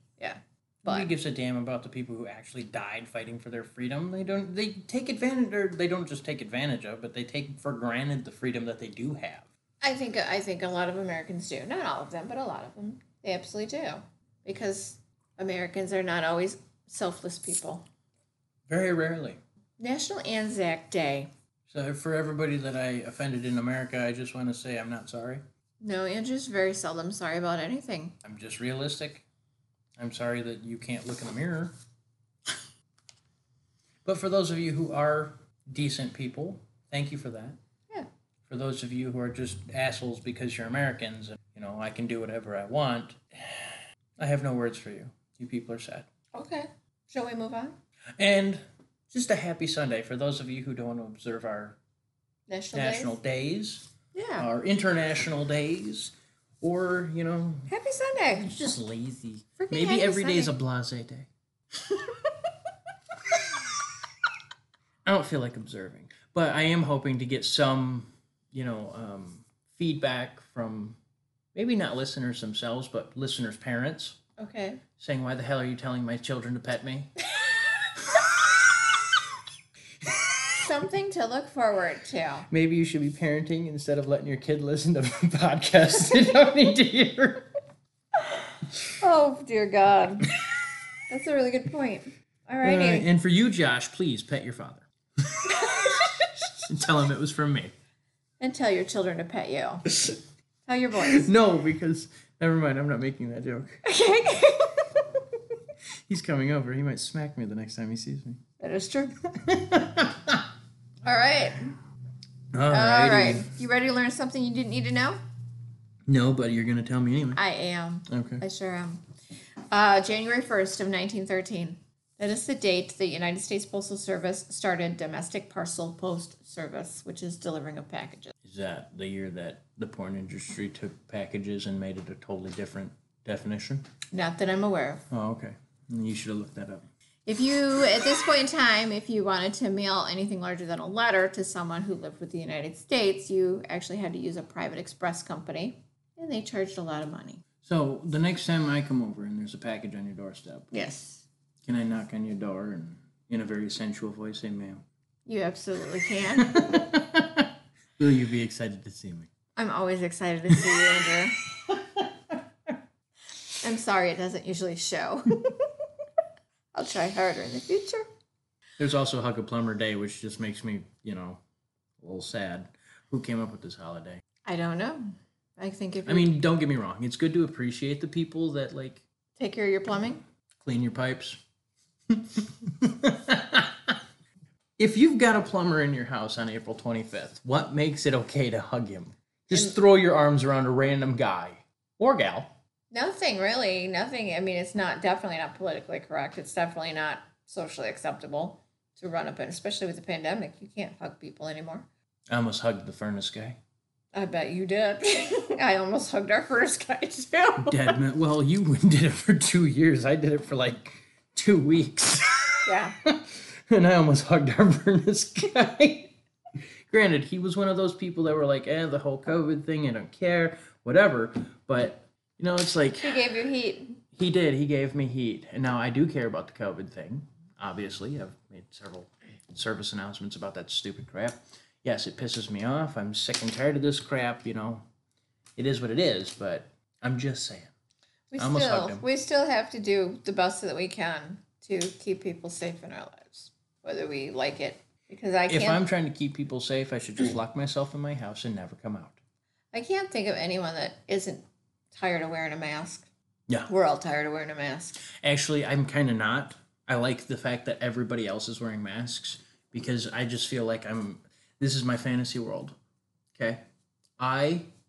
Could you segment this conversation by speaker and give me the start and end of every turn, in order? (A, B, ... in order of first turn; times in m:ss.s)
0:00.2-0:01.1 A
0:00.8-0:09.5 B
0:09.8-0:17.8 A
0:18.7-0:19.4 B
0:19.8-0:21.3 A
0:21.7-0:25.4 B
0:25.8-0:28.2 A
0:28.2-0:29.2 B
0:30.0-0:31.7 B
0:34.0-0:37.6 B
0:38.5-0:46.1 B
0:46.3-0:47.8 A
0:48.2-0:51.8 B
0:52.5-0:53.2 A
0:52.7-0:57.7 B
0:54.1-0:54.5 A
0:57.7-0:58.5 A
0:58.3-1:01.3 B
0:59.6-1:00.5 A
1:01.9-1:02.3 A
1:05.0-1:11.0 B
1:11.5-1:14.2 B
1:14.4-1:14.8 A
1:15.0-1:17.1 B
1:18.2-1:18.6 B
1:20.6-1:22.5 A
1:22.5-1:27.5 B
1:29.0-1:30.4 A
1:31.1-1:33.1 A
1:32.6-1:35.9 B
1:35.6-1:36.5 A
1:36.5-1:37.7 B
1:38.4-1:39.9 A
1:40.7-1:41.3 A
1:41.0-1:43.8 B
1:43.8-1:45.0 A
1:46.1-1:48.4 B
1:48.6-1:49.2 A
1:49.2-1:50.5 B
1:51.0-1:51.8 A
1:52.5-1:53.5 B
1:52.7-1:55.2 A
1:56.1-1:57.4 B
1:57.4-1:59.0 A
1:58.1-1:58.4 B
1:59.7-2:08.3 A
2:08.4-2:13.9 B
2:14.1-2:15.0 A
2:15.1-2:16.9 B
2:17.3-2:27.4 A
2:27.6-2:30.7 B
2:30.7-2:31.3 A
2:31.6-2:34.8 B
2:35.3-2:36.8 A
2:36.4-2:39.3 B
2:39.6-2:41.4 A
2:41.6-2:42.4 B
2:43.6-2:45.7 A
2:46.7-2:48.1 A
2:48.8-2:51.4 B
2:52.0-2:54.2 B
2:54.4-2:56.4 A
2:56.1-2:59.0 B
2:59.4-3:00.2 A
3:00.6-3:01.4 B
3:02.1-3:04.0 B
3:04.8-3:12.5 B
3:12.9-3:21.9 A
3:22.3-3:23.6 B
3:24.1-3:28.0 A
3:27.6-3:36.1 B
3:32.6-3:33.0 A
3:36.9-3:43.2 B
3:43.0-3:44.0 A
3:44.1-3:54.8 B
3:55.6-3:57.7 B
3:58.3-4:05.8 A
3:58.4-3:59.0 B
4:05.5-4:09.2 B
4:09.7-4:13.1 A
4:13.7-4:15.0 A
4:15.0-4:22.8 B
4:23.4-4:23.6 B
4:24.2-4:24.7 B